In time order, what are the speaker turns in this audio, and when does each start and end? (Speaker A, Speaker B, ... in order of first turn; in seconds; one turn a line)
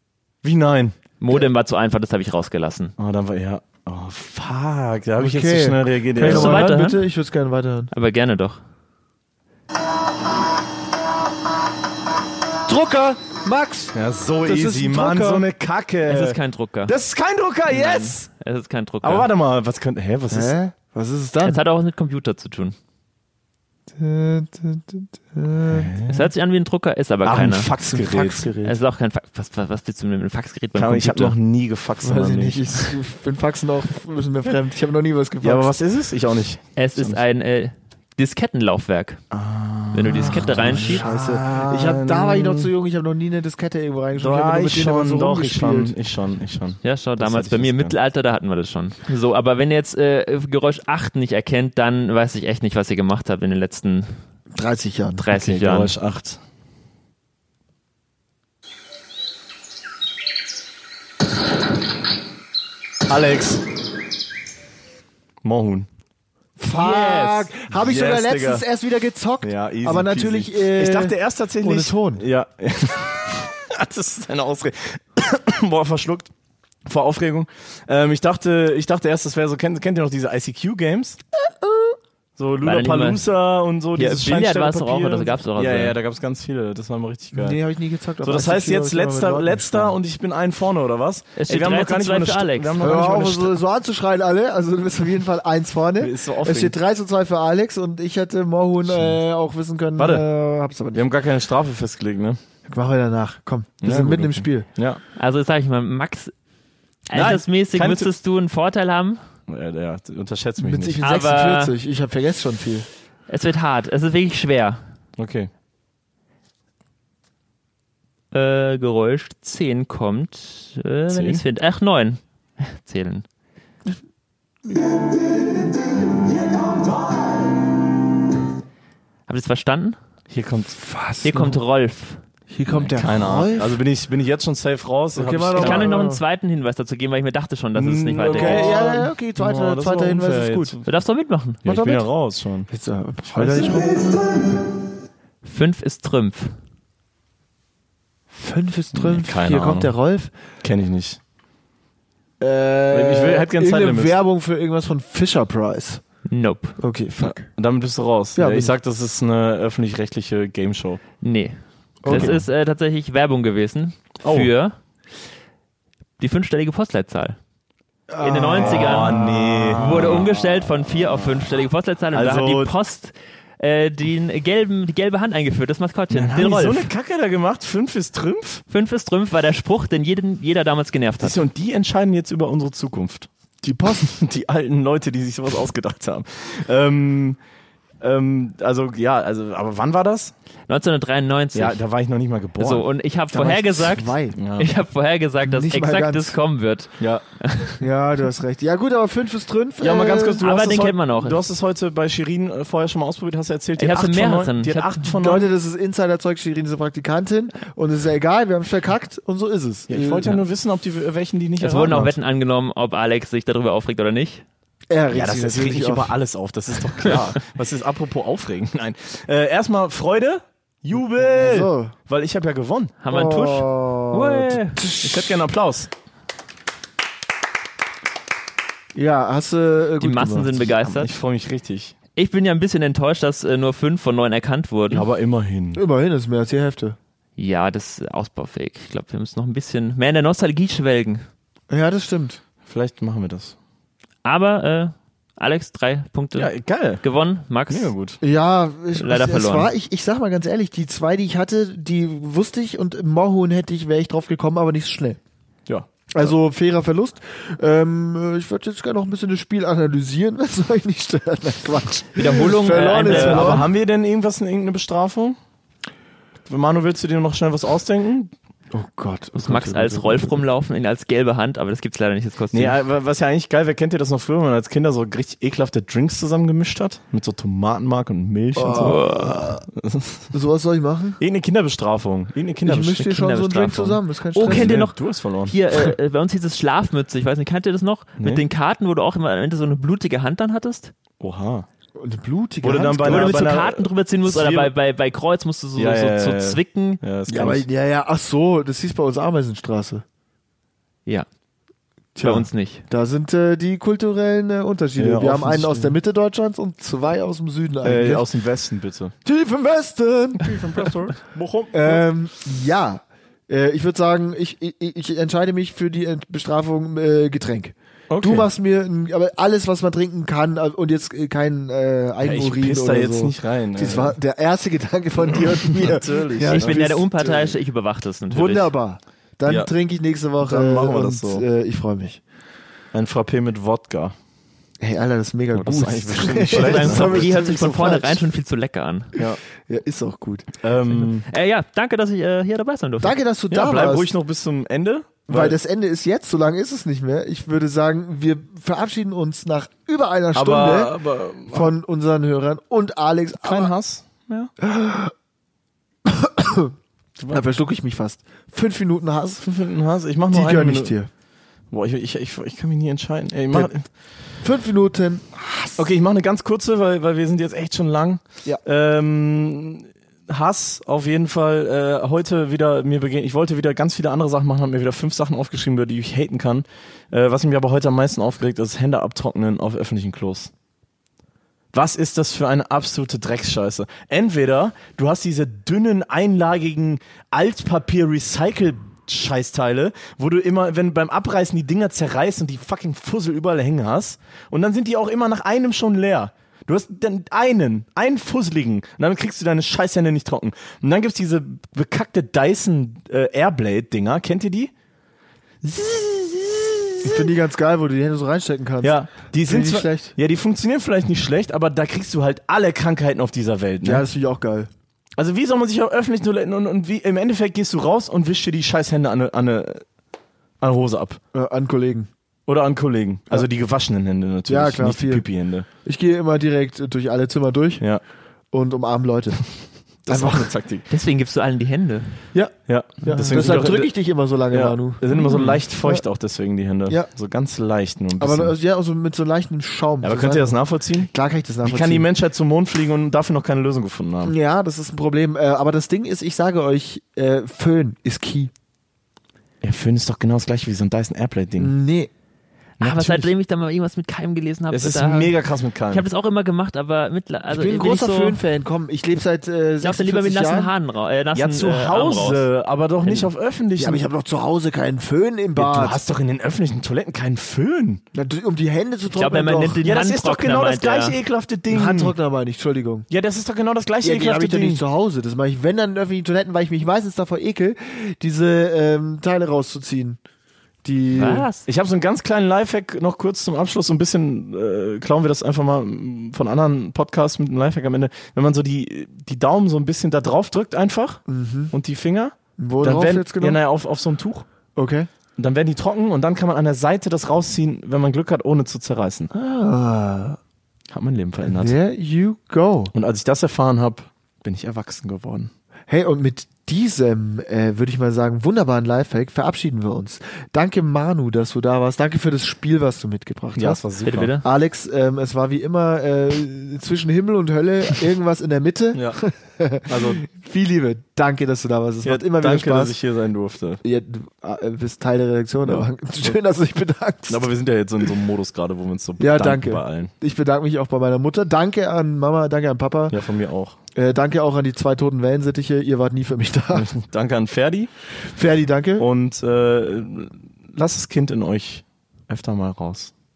Speaker A: 0.4-1.0
Speaker B: 1.2-2.9
Speaker A: 3.0-6.8
Speaker C: 5.2-7.9
Speaker B: 6.2-7.0
Speaker B: 7.9-8.6
Speaker C: 12.7-15.4
Speaker A: 13.9-18.3
Speaker B: 16.1-16.9
Speaker B: 17.7-19.3
Speaker A: 19.0-20.5
Speaker C: 20.3-21.6
Speaker B: 21.4-22.8
Speaker C: 24.0-25.9
Speaker A: 25.6-26.3
Speaker B: 26.1-27.7
Speaker A: 27.2-28.5
Speaker C: 27.9-28.8
Speaker B: 28.6-31.3
Speaker A: 30.8-32.9
Speaker C: 32.0-35.7
Speaker A: 35.4-37.2
Speaker B: 36.8-39.2
Speaker A: 39.3-42.7
Speaker B: 39.9-41.0
Speaker C: 40.4-45.9
Speaker A: 44.2-47.9
Speaker B: 46.8-54.1
Speaker C: 54.5-55.3
Speaker B: 55.2-55.9
Speaker A: 55.3-56.4
Speaker A: 63.1-63.6
Speaker A: 65.4-65.9
Speaker C: 66.6-72.2
Speaker B: 66.7-67.5
Speaker A: 67.7-68.6
Speaker A: 69.4-76.3
Speaker A: 76.8-81.2
Speaker A: 82.4-87.6
Speaker B: 82.6-83.2
Speaker B: 83.9-86.0
Speaker C: 87.3-90.0
Speaker A: 88.2-93.6
Speaker B: 91.3-92.8
Speaker C: 92.8-101.0
Speaker A: 96.0-96.8
Speaker A: 98.8-99.2
Speaker A: 100.0-100.2
Speaker A: 100.9-102.4
Speaker C: 102.7-104.7
Speaker A: 103.8-105.0
Speaker B: 105.2-106.3
Speaker B: 107.1-109.2
Speaker A: 107.1-108.1
Speaker A: 109.5-111.0
Speaker C: 110.6-112.9
Speaker B: 111.0-111.7
Speaker B: 113.3-114.8
Speaker A: 115.2-115.5
Speaker B: 118.3-123.2
Speaker A: 121.1-121.4
Speaker A: 126.5-126.8
Speaker B: 129.3-130.0
Speaker A: 130.3-130.8
Speaker C: 130.8-131.6
Speaker B: 131.2-132.2
Speaker C: 132.5-133.8
Speaker A: 132.7-135.9
Speaker C: 135.1-136.2
Speaker B: 135.6-138.8
Speaker A: 137.7-140.9
Speaker C: 138.3-140.8
Speaker B: 140.8-142.0
Speaker A: 141.6-142.7
Speaker C: 142.7-144.2
Speaker A: 143.3-144.4
Speaker B: 145.4-146.5
Speaker C: 148.3-150.3
Speaker A: 148.9-149.9
Speaker A: 150.6-151.2
Speaker C: 152.4-156.0
Speaker A: 152.9-154.2
Speaker B: 156.3-156.8
Speaker C: 156.8-157.5
Speaker A: 157.2-161.0
Speaker C: 158.3-158.7
Speaker B: 161.2-164.7
Speaker C: 162.0-162.4
Speaker A: 162.1-162.4
Speaker A: 164.2-164.5
Speaker B: 166.2-167.4
Speaker C: 168.1-170.1
Speaker B: 168.2-176.9
Speaker A: 168.6-172.7
Speaker A: 176.1-178.6
Speaker B: 178.7-181.4
Speaker A: 181.2-183.3
Speaker C: 183.6-184.1
Speaker A: 184.0-187.4
Speaker A: 188.0-190.3
Speaker B: 190.7-191.8
Speaker A: 191.5-192.9
Speaker B: 192.6-197.8
Speaker C: 193.3-194.4
Speaker A: 194.3-194.7
Speaker C: 195.4-196.3
Speaker C: 197.8-200.4
Speaker A: 199.8-205.5
Speaker B: 200.4-201.4
Speaker B: 203.8-205.0
Speaker C: 205.2-210.3
Speaker A: 209.9-212.2
Speaker B: 211.6-214.4
Speaker C: 214.9-216.1
Speaker A: 215.1-222.9
Speaker C: 221.2-221.9
Speaker B: 223.0-224.8
Speaker C: 223.1-225.4
Speaker A: 225.0-225.9
Speaker C: 228.9-230.8
Speaker B: 230.0-231.1
Speaker A: 230.8-231.9
Speaker B: 232.2-235.1
Speaker A: 234.9-235.8
Speaker C: 235.7-237.0
Speaker B: 237.4-241.2
Speaker C: 241.7-242.4
Speaker A: 242.7-243.6
Speaker B: 244.2-247.9
Speaker A: 246.3-247.0
Speaker A: 247.7-248.2
Speaker C: 248.2-255.2
Speaker B: 248.9-249.7
Speaker A: 255.7-256.3
Speaker C: 256.1-263.6
Speaker B: 262.1-263.7
Speaker A: 263.0-265.4
Speaker A: 266.4-268.3
Speaker C: 268.7-270.4
Speaker B: 269.4-272.8
Speaker A: 272.5-280.3
Speaker C: 278.6-279.3
Speaker B: 278.7-279.6
Speaker C: 280.3-281.2
Speaker A: 281.2-283.0
Speaker C: 282.6-284.8
Speaker B: 283.0-290.9
Speaker A: 284.4-285.9
Speaker A: 291.2-291.7
Speaker C: 291.9-293.4
Speaker A: 292.6-294.7
Speaker B: 293.0-297.0
Speaker A: 295.8-297.6
Speaker C: 297.3-300.0
Speaker C: 302.1-308.3
Speaker B: 302.2-302.8
Speaker A: 305.0-305.9
Speaker A: 307.8-309.1
Speaker C: 309.2-310.5
Speaker A: 310.4-312.1
Speaker C: 311.7-327.5
Speaker A: 318.1-318.5
Speaker A: 322.2-324.2
Speaker A: 325.3-326.8
Speaker B: 326.4-328.7
Speaker C: 328.3-332.2
Speaker A: 329.4-329.7
Speaker A: 330.4-331.4
Speaker A: 332.9-334.1
Speaker C: 334.8-338.2
Speaker A: 335.5-337.3
Speaker B: 336.4-339.1
Speaker C: 339.6-340.5
Speaker A: 340.6-341.2
Speaker B: 341.3-343.2
Speaker C: 343.0-344.1
Speaker A: 343.5-345.6
Speaker C: 345.3-350.9
Speaker A: 350.3-351.7
Speaker C: 351.5-353.7
Speaker A: 353.4-354.5
Speaker C: 354.6-355.1
Speaker C: 356.1-356.7
Speaker C: 357.3-359.4
Speaker A: 359.4-360.9
Speaker C: 360.3-361.1
Speaker A: 361.7-363.9
Speaker C: 364.4-365.8
Speaker A: 365.8-380.5
Speaker A: 381.7-404.7
Speaker A: 405.6-407.3
Speaker C: 407.0-410.1
Speaker A: 408.8-414.1
Speaker C: 413.8-414.7
Speaker A: 415.1-419.8
Speaker A: 420.6-421.2
Speaker C: 421.3-422.1
Speaker A: 422.5-425.7
Speaker C: 424.5-425.3
Speaker C: 425.8-427.8
Speaker C: 428.5-429.5
Speaker A: 430.0-430.9
Speaker C: 430.1-430.5
Speaker B: 430.9-432.1
Speaker C: 432.3-436.0
Speaker A: 432.7-433.9
Speaker A: 434.5-438.5
Speaker B: 435.1-435.5
Speaker C: 438.2-442.1
Speaker A: 440.0-441.1
Speaker A: 441.6-444.3
Speaker C: 444.2-448.5
Speaker A: 449.6-451.7
Speaker C: 451.6-452.1
Speaker B: 452.8-455.4
Speaker A: 452.8-453.3
Speaker A: 454.7-456.1
Speaker B: 455.9-458.4
Speaker C: 457.5-460.7
Speaker B: 459.8-462.4
Speaker A: 461.3-464.0
Speaker B: 463.0-463.3
Speaker C: 463.8-466.0
Speaker A: 465.6-468.0
Speaker C: 468.1-469.8
Speaker B: 469.1-471.2
Speaker A: 469.8-472.1
Speaker C: 471.7-473.1
Speaker A: 473.1-474.8
Speaker C: 474.0-480.2
Speaker C: 480.8-481.5
Speaker B: 481.1-481.6
Speaker A: 481.6-494.4
Speaker C: 491.3-491.7
Speaker C: 492.6-493.6
Speaker C: 494.8-495.1
Speaker A: 495.4-499.3
Speaker C: 499.3-500.4
Speaker A: 500.9-501.7
Speaker C: 501.5-502.9
Speaker A: 502.9-505.5
Speaker C: 505.9-513.8
Speaker A: 513.5-514.4
Speaker B: 514.0-514.4
Speaker C: 514.4-523.0
Speaker A: 518.9-519.2
Speaker A: 519.9-520.2
Speaker A: 522.0-523.8
Speaker C: 523.8-527.5
Speaker A: 527.3-530.1
Speaker C: 529.2-533.2
Speaker A: 533.1-533.8
Speaker C: 533.9-536.9
Speaker A: 536.7-537.9
Speaker C: 538.3-539.1
Speaker A: 539.0-543.1